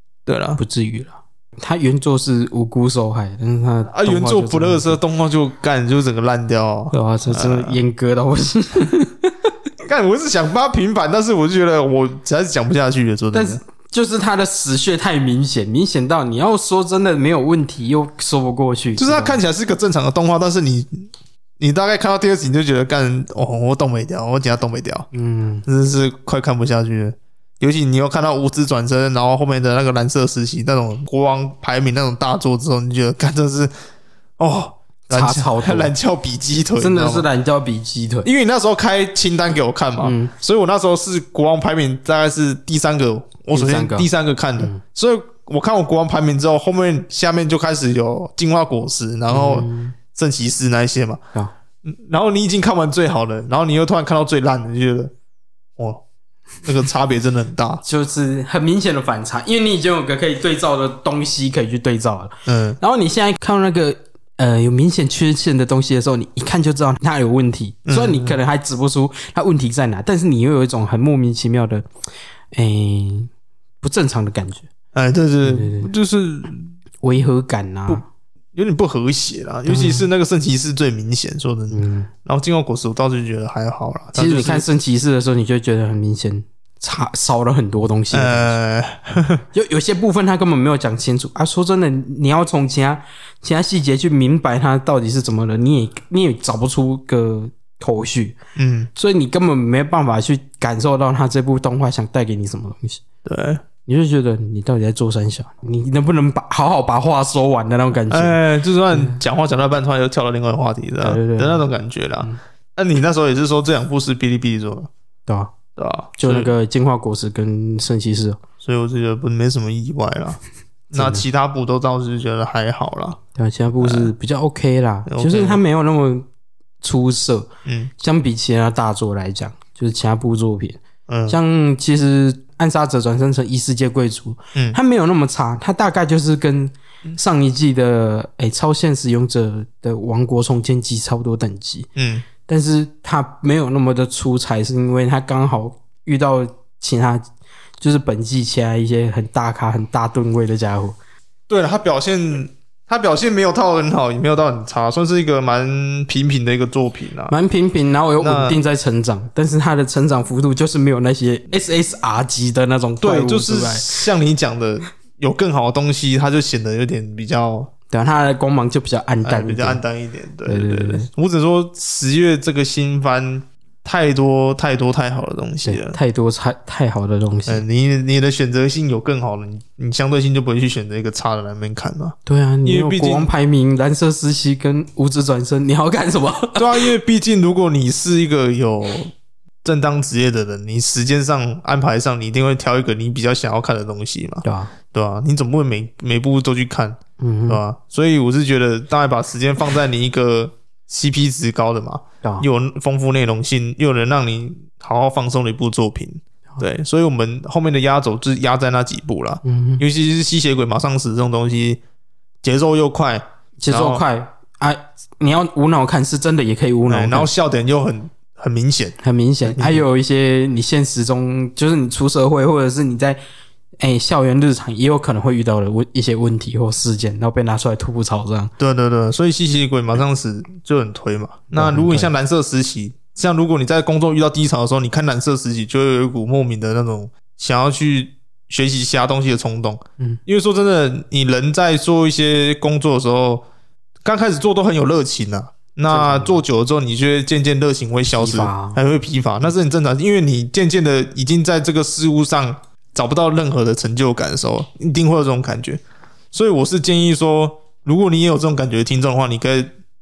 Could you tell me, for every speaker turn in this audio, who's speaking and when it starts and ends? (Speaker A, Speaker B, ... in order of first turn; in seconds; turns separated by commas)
Speaker A: 0.3-0.6, Speaker B: 0.6-5.0, Speaker A: 3.9-7.8, Speaker B: 6.9-9.3, Speaker A: 9.8-13.6, Speaker B: 13.3-19.4, Speaker A: 19.0-25.1, Speaker B: 25.1-25.6, Speaker A: 25.7-33.7, Speaker A: 34.4-37.3, Speaker B: 35.1-35.9, Speaker B: 36.8-38.3, Speaker A: 38.2-51.2, Speaker B: 40.0-40.3, Speaker B: 43.5-44.1, Speaker B: 49.3-50.0, Speaker A: 51.8-55.1, Speaker A: 55.8-56.0, Speaker A: 56.6-57.8, Speaker B: 57.9-71.9, Speaker A: 62.5-62.8, Speaker A: 67.9-68.4, Speaker B: 72.5-74.7, Speaker A: 74.9-76.7, Speaker B: 75.4-75.9, Speaker B: 77.0-78.0, Speaker A: 78.5-84.7, Speaker B: 79.7-80.1, Speaker B: 81.7-82.1, Speaker B: 84.1-88.5, Speaker A: 88.1-89.4, Speaker B: 89.5-98.4, Speaker A: 98.6-98.9, Speaker B: 99.0-103.0, Speaker A: 103.2-103.6, Speaker B: 103.9-108.4, Speaker A: 108.1-114.9, Speaker B: 111.0-111.6, Speaker B: 115.3-115.5, Speaker A: 115.8-116.5, Speaker B: 116.2-118.4, Speaker A: 118.6-123.2, Speaker B: 120.9-121.2, Speaker B: 123.3-126.3, Speaker A: 123.8-124.1, Speaker A: 125.1-125.6, Speaker B: 126.8-141.9, Speaker A: 127.7-127.9, Speaker A: 131.1-131.4, Speaker A: 142.0-142.3, Speaker B: 142.4-147.3, Speaker B: 147.8-151.0, Speaker A: 151.5-157.3, Speaker B: 157.3-163.9, Speaker A: 158.2-158.6, Speaker A: 163.0-167.7, Speaker B: 167.9-169.8, Speaker A: 169.2-176.0, Speaker B: 170.4-171.1, Speaker B: 175.7-177.6, Speaker A: 177.5-183.3, Speaker B: 182.3-186.9, Speaker A: 186.6-189.1, Speaker A: 189.6-211.8, Speaker B: 194.4-194.7, Speaker B: 197.2-197.6, Speaker B: 209.4-209.8, Speaker A: 212.4-214.0, Speaker B: 213.6-217.3, Speaker A: 216.9-219.8, Speaker B: 219.0-223.2, Speaker B: 223.8-228.5, Speaker A: 228.6-243.5, Speaker B: 231.5-232.1, Speaker A: 244.0-255.8, Speaker B: 245.9-246.4, Speaker B: 248.2-248.8, Speaker A: 256.3-259.7